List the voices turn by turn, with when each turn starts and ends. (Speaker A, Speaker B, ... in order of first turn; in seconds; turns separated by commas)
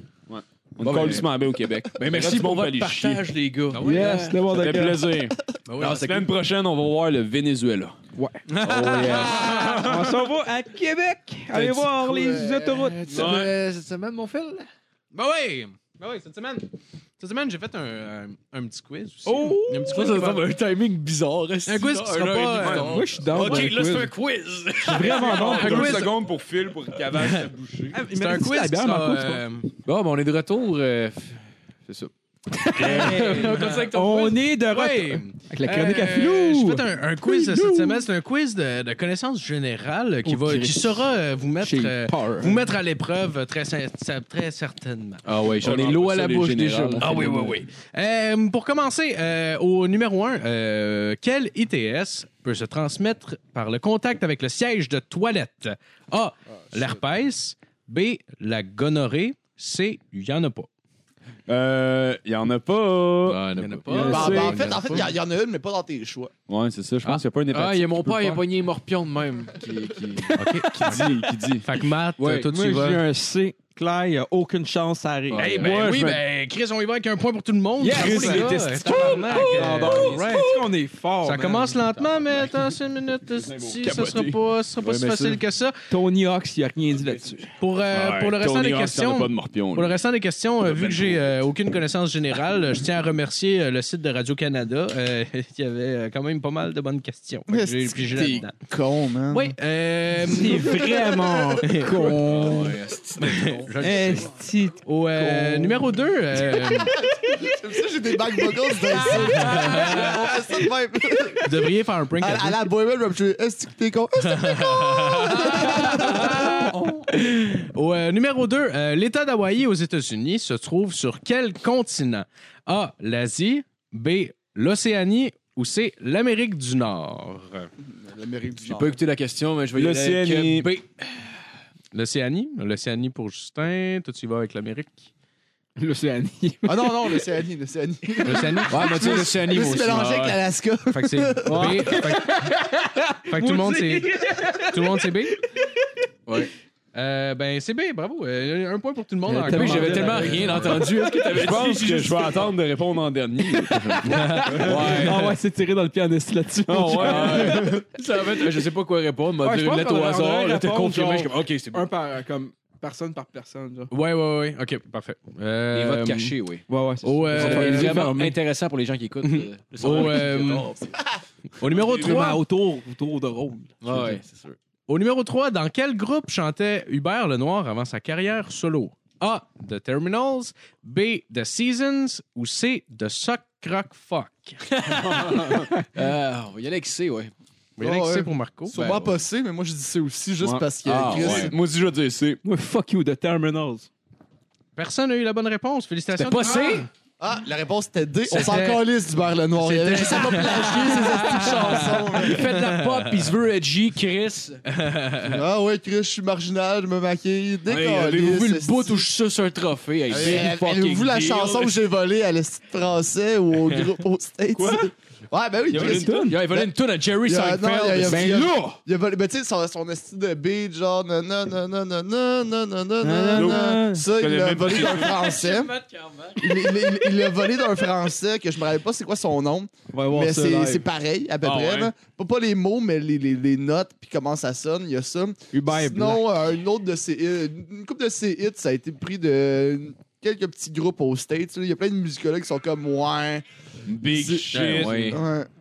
Speaker A: 0.3-3.2, Speaker B: 0.8-1.3, Speaker B: 1.9-4.6, Speaker C: 3.7-4.3, Speaker D: 3.8-5.1, Speaker A: 4.5-8.0, Speaker C: 5.7-6.2, Speaker B: 5.8-6.3, Speaker D: 8.2-8.5, Speaker C: 8.5-9.9, Speaker B: 8.6-9.8, Speaker A: 8.7-10.2, Speaker D: 9.5-13.2, Speaker A: 11.5-11.9, Speaker E: 12.1-13.4, Speaker B: 12.3-14.7, Speaker A: 13.1-13.5, Speaker C: 15.1-20.4, Speaker D: 19.2-20.1, Speaker B: 19.8-26.1, Speaker C: 21.6-23.7, Speaker A: 22.6-23.6, Speaker D: 22.8-24.1, Speaker D: 24.8-26.0, Speaker C: 24.9-26.1, Speaker A: 25.1-28.0, Speaker D: 27.9-29.4, Speaker C: 28.1-29.7, Speaker B: 29.8-32.1, Speaker D: 32.5-38.0, Speaker B: 32.7-34.4, Speaker C: 32.8-33.9, Speaker C: 34.6-45.2, Speaker D: 40.2-41.0, Speaker D: 41.6-42.6, Speaker B: 45.2-47.6, Speaker A: 45.6-47.3, Speaker C: 47.0-60.7, Speaker A: 61.5-63.4, Speaker B: 63.2-64.7, Speaker C: 63.6-65.1, Speaker D: 63.9-64.6, Speaker E: 64.0-66.3, Speaker A: 64.1-64.7, Speaker A: 66.5-68.4, Speaker B: 67.5-71.6, Speaker C: 70.3-71.1, Speaker A: 70.8-71.6, Speaker C: 71.6-73.0, Speaker B: 72.2-72.5, Speaker D: 72.4-75.8, Speaker B: 75.3-76.2, Speaker C: 75.3-80.5, Speaker D: 77.8-81.9, Speaker A: 77.9-80.2, Speaker B: 78.0-80.2, Speaker C: 81.2-85.8, Speaker A: 83.3-84.4, Speaker D: 85.0-85.3, Speaker D: 85.9-87.5, Speaker A: 87.0-87.2, Speaker C: 87.6-98.5, Speaker A: 87.9-90.0, Speaker A: 90.6-91.3, Speaker E: 97.5-99.5, Speaker C: 99.3-102.2, Speaker D: 100.3-102.8, Speaker B: 102.2-104.2, Speaker C: 103.2-106.9, Speaker D: 103.8-106.0, Speaker E: 106.7-111.5, Speaker C: 109.1-110.1, Speaker C: 111.4-112.7, Speaker E: 112.2-117.1, Speaker C: 114.2-127.7, Speaker E: 127.8-129.0, Speaker B: 128.6-131.3, Speaker A: 129.7-130.7, Speaker C: 131.9-135.1, Speaker D: 135.8-137.2, Speaker E: 136.6-141.9, Speaker C: 138.2-138.9, Speaker B: 138.7-140.4, Speaker C: 140.9-142.4, Speaker D: 141.4-145.1, Speaker C: 143.2-145.4, Speaker C: 146.9-150.9, Speaker D: 149.3-151.3, Speaker B: 149.4-152.5, Speaker A: 151.3-155.1, Speaker B: 153.7-155.4, Speaker C: 154.1-154.7, Speaker D: 154.1-157.8, Speaker A: 156.7-157.8, Speaker B: 157.0-161.9, Speaker D: 159.4-163.9, Speaker C: 163.9-166.3, Speaker B: 165.7-166.7, Speaker D: 166.7-168.3, Speaker C: 167.0-168.2, Speaker B: 167.3-171.0, Speaker C: 169.2-170.7, Speaker C: 171.6-172.4, Speaker A: 171.7-172.2, Speaker D: 171.8-174.2, Speaker B: 173.8-174.6, Speaker C: 174.9-184.6, Speaker B: 184.7-187.3, Speaker A: 185.0-185.7, Speaker C: 187.8-188.9, Speaker E: 187.8-191.5, Speaker B: 188.7-189.1, Speaker A: 190.4-192.4, Speaker B: 190.8-191.5, Speaker D: 192.4-193.9, Speaker C: 194.8-196.9, Speaker B: 196.1-196.9, Speaker E: 197.2-202.5, Speaker C: 198.3-198.8, Speaker C: 199.6-203.3, Speaker B: 200.0-204.6, Speaker C: 204.7-205.4, Speaker E: 205.2-209.1, Speaker B: 207.7-211.7, Speaker E: 210.1-216.7, Speaker A: 214.5-214.9, Speaker A: 215.7-216.3, Speaker D: 215.8-216.4, Speaker B: 216.3-218.6, Speaker E: 217.2-225.7, Speaker D: 218.0-218.8, Speaker D: 223.0-224.1, Speaker A: 223.3-225.2, Speaker B: 224.7-227.1, Speaker E: 226.3-243.4, Speaker D: 229.9-230.8, Speaker A: 231.4-231.9, Speaker D: 235.5-236.2, Speaker A: 243.8-245.2, Speaker E: 244.0-245.5, Speaker B: 244.5-245.2